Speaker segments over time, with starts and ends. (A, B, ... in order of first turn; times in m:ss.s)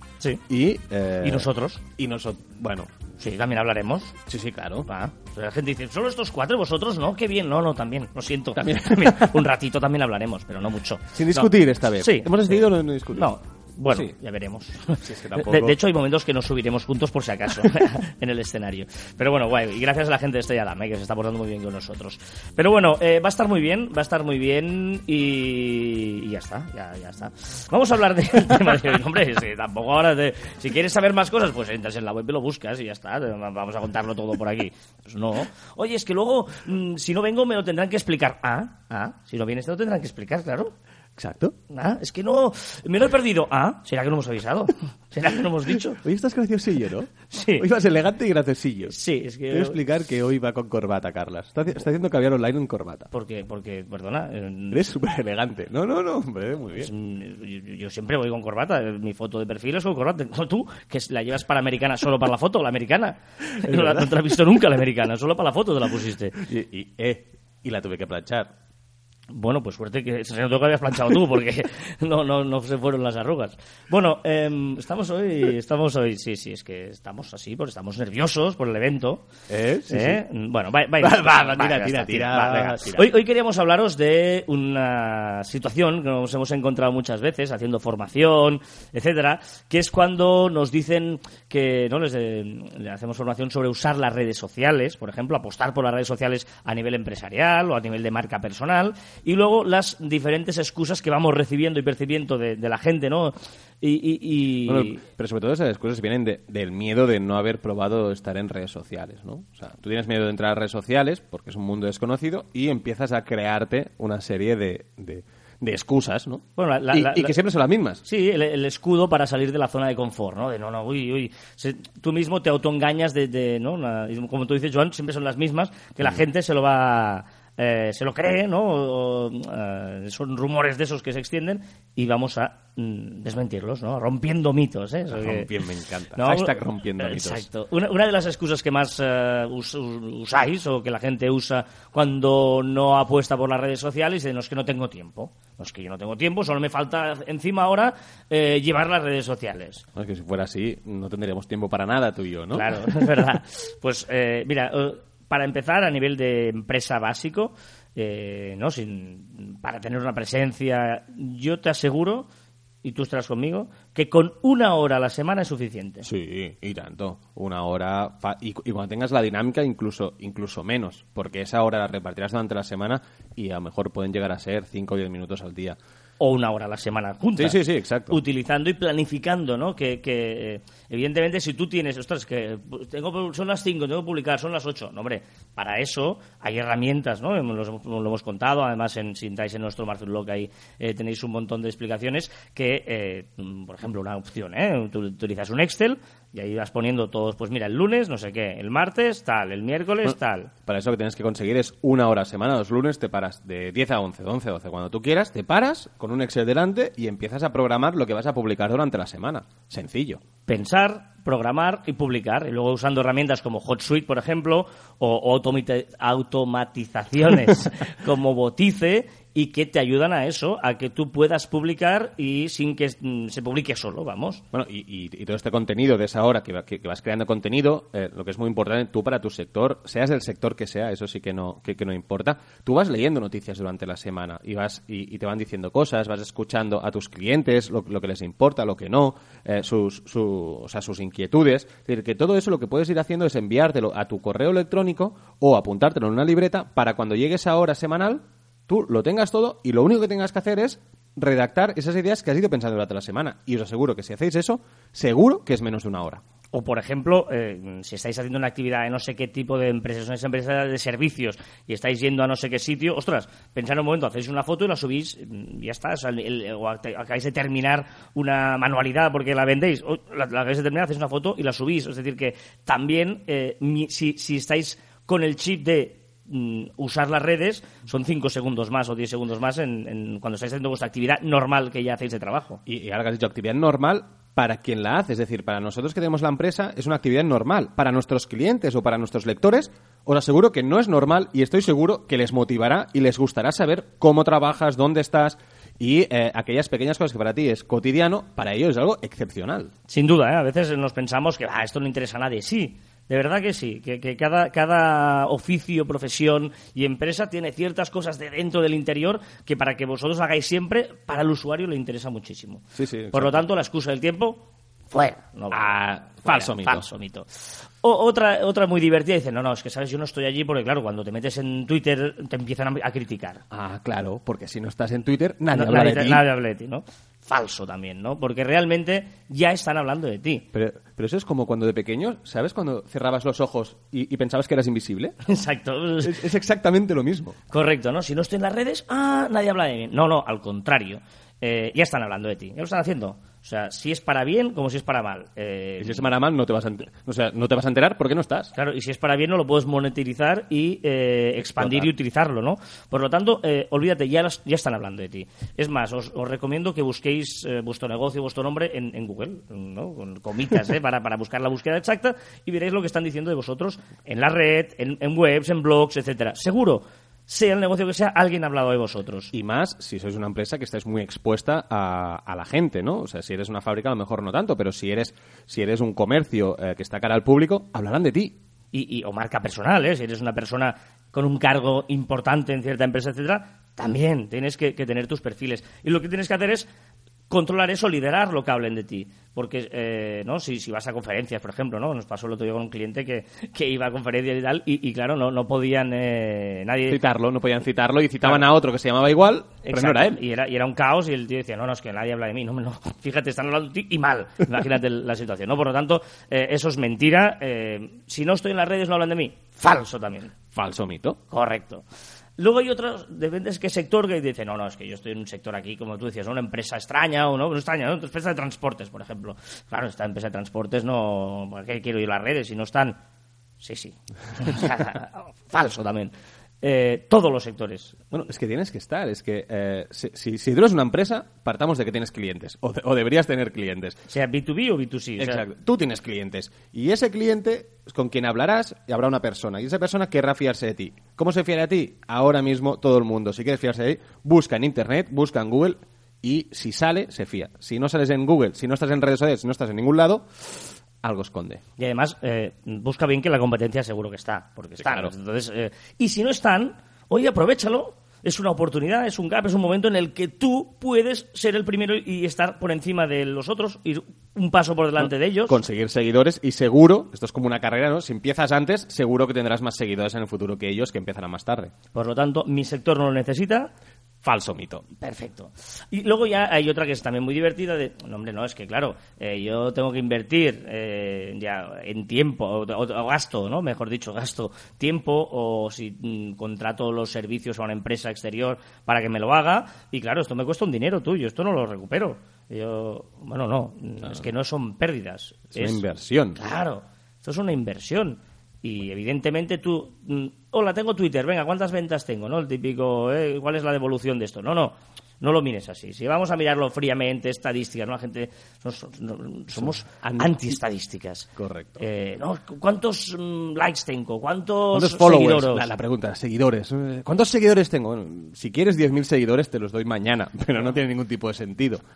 0:00.5-0:02.9 A
0:01.2-0:01.8 B
0:03.2-0:04.2 B
0:04.3-0:04.9 A
0:04.9-0:40.7 B
0:08.6-0:09.4 A
0:11.1-0:13.3 A
0:15.0-0:15.8 A
0:41.2-0:41.6 A
0:41.7-0:46.0 B
0:45.8-0:49.0 A
0:47.3-0:47.7 B
0:48.9-0:49.8 B
0:49.5-0:53.1 A
0:53.1-0:54.8 B
0:54.7-0:56.9 A
0:56.8-1:06.4 B
1:03.6-1:04.0 A
1:06.4-1:08.5 A
1:09.3-1:19.2 B
1:19.5-1:20.2 A
1:19.9-1:45.0 B
1:21.0-1:23.1 A
1:44.7-1:58.0 A
1:56.6-1:57.4 B
1:58.0-2:15.5 B
2:15.1-2:17.5 A
2:16.2-2:29.8 B
2:30.0-2:32.9 A
2:32.5-2:42.3 B
2:42.8-2:46.1 B
2:46.0-2:55.8 A
2:56.2-2:57.6 B
2:57.4-2:58.2 A
2:58.1-3:20.5 B
3:20.7-3:30.2 A
3:30.5-3:44.4 B
3:44.5-4:16.2 A
4:16.5-4:42.6 B
4:42.7-4:59.7 A
4:59.9-5:23.4 B
5:12.8-5:13.4 A
5:15.5-5:16.9 A
5:23.5-5:26.2 A
5:25.5-5:30.4 B
5:30.5-5:35.2 A
5:35.2-5:36.2 B
5:36.0-5:37.4 A
5:37.5-5:46.1 B
5:45.8-5:48.5 A
5:48.6-6:09.3 B
5:51.6-5:51.9 A
6:09.3-6:18.4 A
6:18.7-6:26.7 B
6:27.3-6:37.0 B
6:36.9-6:40.2 A
6:39.6-6:50.3 B
6:50.5-6:51.2 A
6:51.3-6:51.8 B
6:52.4-7:03.0 B
7:03.6-7:08.0 B
7:08.1-7:14.0 A
7:14.1-7:15.5 B
7:15.2-7:31.6 A
7:31.8-7:45.6 B
7:34.8-7:35.1 A
7:45.0-7:51.7 A
7:51.9-7:53.7 B
7:54.2-7:54.8 A
7:55.0-8:15.8 B
8:15.5-8:16.4 A
8:16.4-8:35.7 B
8:30.0-8:30.5 A
8:31.4-8:31.8 A
8:34.7-8:41.8 A